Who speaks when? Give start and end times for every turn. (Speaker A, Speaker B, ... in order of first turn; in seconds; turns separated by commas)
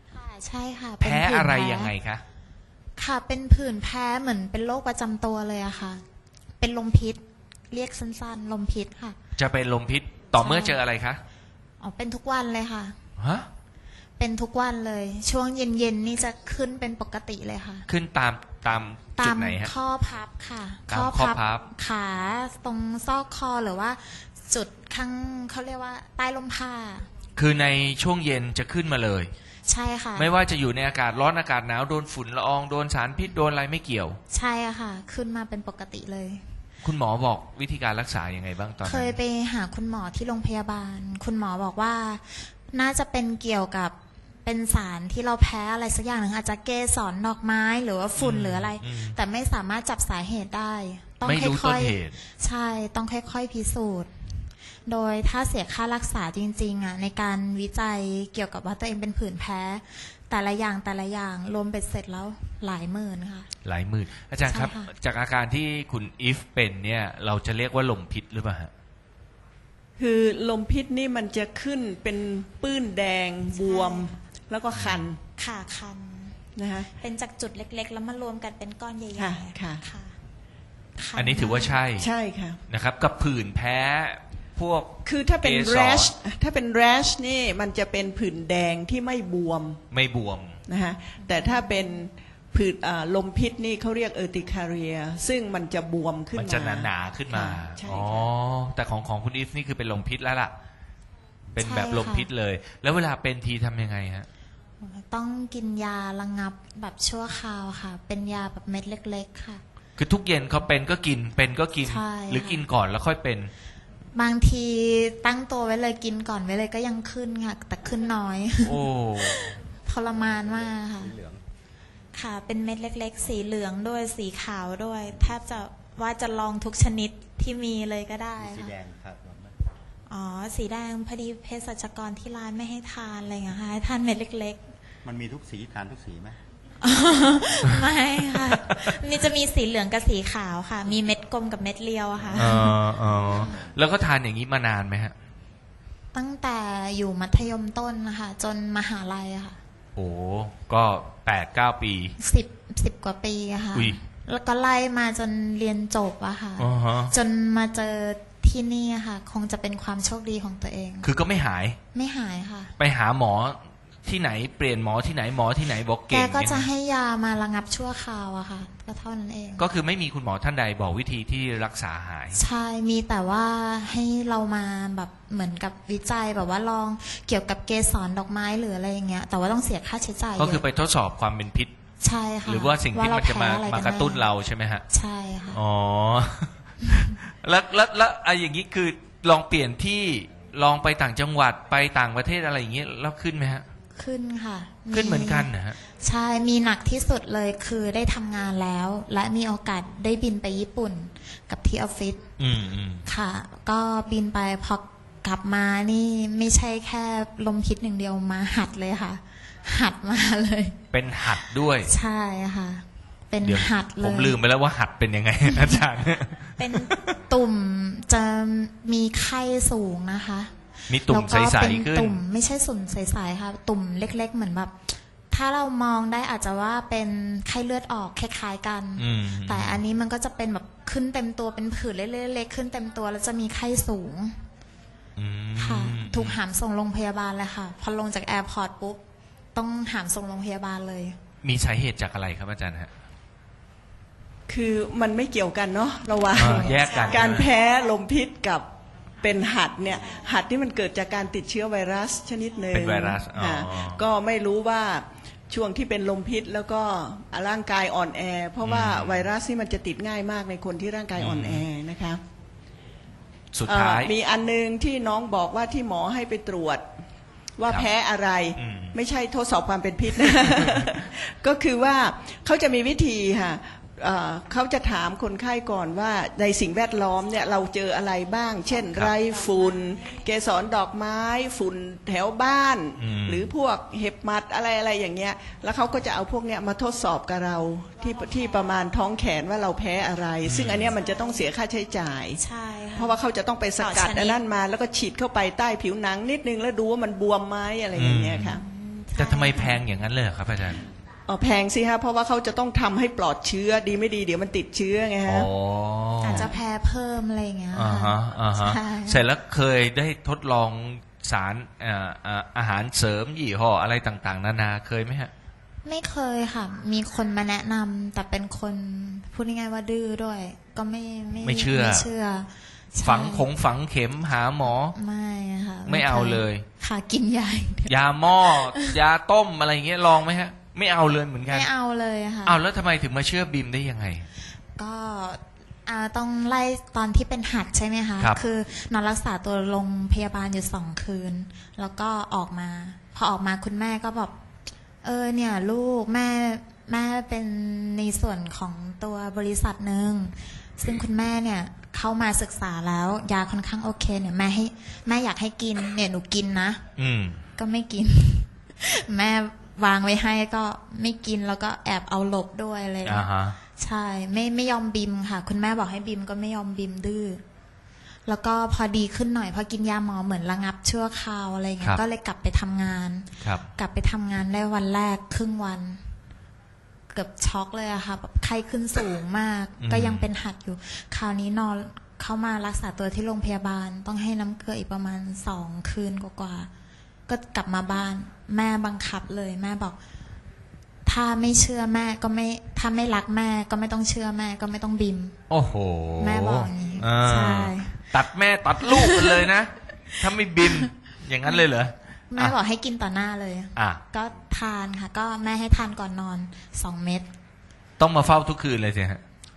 Speaker A: 0.1-1.9, Speaker B: 1.0-2.2, Speaker A: 3.0-6.0, Speaker A: 6.6-9.2, Speaker B: 9.3-11.2, Speaker A: 10.3-10.8, Speaker A: 11.8-13.0, Speaker B: 13.2-13.5, Speaker A: 14.2-17.9, Speaker B: 17.9-19.7, Speaker A: 19.2-27.1, Speaker B: 20.9-21.7, Speaker B: 27.4-29.3, Speaker A: 29.7-30.3, Speaker B: 30.1-34.2, Speaker A: 34.3-36.4, Speaker B: 36.8-39.2, Speaker A: 38.8-63.5, Speaker B: 48.2-49.2, Speaker B: 51.2-52.2, Speaker B: 63.6-68.7, Speaker A: 64.5-64.9, Speaker C: 70.0-75.2, Speaker A: 73.5-74.1, Speaker B: 74.8-75.0, Speaker A: 75.4-76.4, Speaker C: 76.5-76.9, Speaker A: 76.9-80.1, Speaker C: 79.2-79.8, Speaker A: 81.0-81.8, Speaker B: 81.2-82.1, Speaker C: 82.0-82.6, Speaker B: 82.7-86.1, Speaker C: 85.0-89.8, Speaker B: 89.9-90.6, Speaker C: 90.7-98.3, Speaker A: 91.2-92.0, Speaker B: 96.3-100.5, Speaker B: 101.5-104.3, Speaker A: 101.6-102.3, Speaker A: 104.8-109.6, Speaker B: 110.0-113.5, Speaker A: 111.8-112.6, Speaker A: 114.1-121.1, Speaker B: 118.6-119.5, Speaker D: 120.2-121.4, Speaker A: 122.1-128.7, Speaker D: 128.4-129.5, Speaker A: 130.1-134.6, Speaker D: 135.0-136.4, Speaker A: 136.8-143.6, Speaker B: 142.3-145.1, Speaker A: 146.1-149.6, Speaker B: 149.9-152.2, Speaker A: 152.2-161.1, Speaker B: 156.6-157.1, Speaker B: 161.0-161.8, Speaker A: 161.9-162.7, Speaker B: 162.8-166.7, Speaker A: 166.1-169.6, Speaker B: 169.6-172.4, Speaker A: 172.3-180.6, Speaker B: 180.3-181.7, Speaker A: 182.0-184.2, Speaker B: 182.4-184.8, Speaker A: 184.9-185.6, Speaker B: 185.5-193.7, Speaker A: 193.9-202.2, Speaker B: 194.9-195.8, Speaker B: 202.4-203.0, Speaker A: 203.1-210.8, Speaker B: 210.9-211.9, Speaker A: 211.8-214.3, Speaker B: 213.4-217.1, Speaker A: 215.4-215.8, Speaker A: 216.6-224.8, Speaker B: 220.9-222.2, Speaker A: 225.3-234.4, Speaker B: 229.0-229.8, Speaker B: 235.2-236.3, Speaker A: 235.6-239.0, Speaker A: 239.5-241.2, Speaker B: 241.4-242.9, Speaker C: 244.5-248.6, Speaker B: 246.3-247.5, Speaker A: 246.5-247.3, Speaker C: 249.2-262.2, Speaker B: 252.7-254.0, Speaker B: 258.6-259.3, Speaker B: 261.1-261.7, Speaker B: 263.5-264.1, Speaker C: 263.7-266.8, Speaker C: 267.6-292.4, Speaker B: 268.6-269.0, Speaker B: 283.0-283.5, Speaker B: 290.4-290.9, Speaker A: 291.1-291.4, Speaker A: 292.4-293.2, Speaker C: 292.9-298.6, Speaker A: 293.8-294.4, Speaker B: 297.9-298.5, Speaker A: 298.5-299.8, Speaker B: 299.1-300.8, Speaker C: 301.3-305.5, Speaker B: 305.2-306.5, Speaker A: 306.2-309.2, Speaker B: 307.7-315.3, Speaker A: 315.8-323.5, Speaker B: 321.4-322.1, Speaker B: 323.0-324.9, Speaker A: 324.9-329.0, Speaker B: 325.9-326.6, Speaker B: 327.9-331.7, Speaker A: 331.5-332.6, Speaker B: 332.4-334.3, Speaker A: 334.8-344.3, Speaker A: 345.0-356.8, Speaker B: 357.0-357.4, Speaker A: 357.6-367.4, Speaker B: 363.0-363.6, Speaker A: 368.3-376.0, Speaker A: 377.1-386.7, Speaker B: 379.8-380.3, Speaker A: 387.3-390.0, Speaker A: 391.1-395.4, Speaker B: 395.5-402.5, Speaker A: 396.2-398.1, Speaker A: 398.8-399.4, Speaker A: 400.6-400.9, Speaker A: 402.3-407.3, Speaker B: 403.8-404.0, Speaker B: 408.0-409.2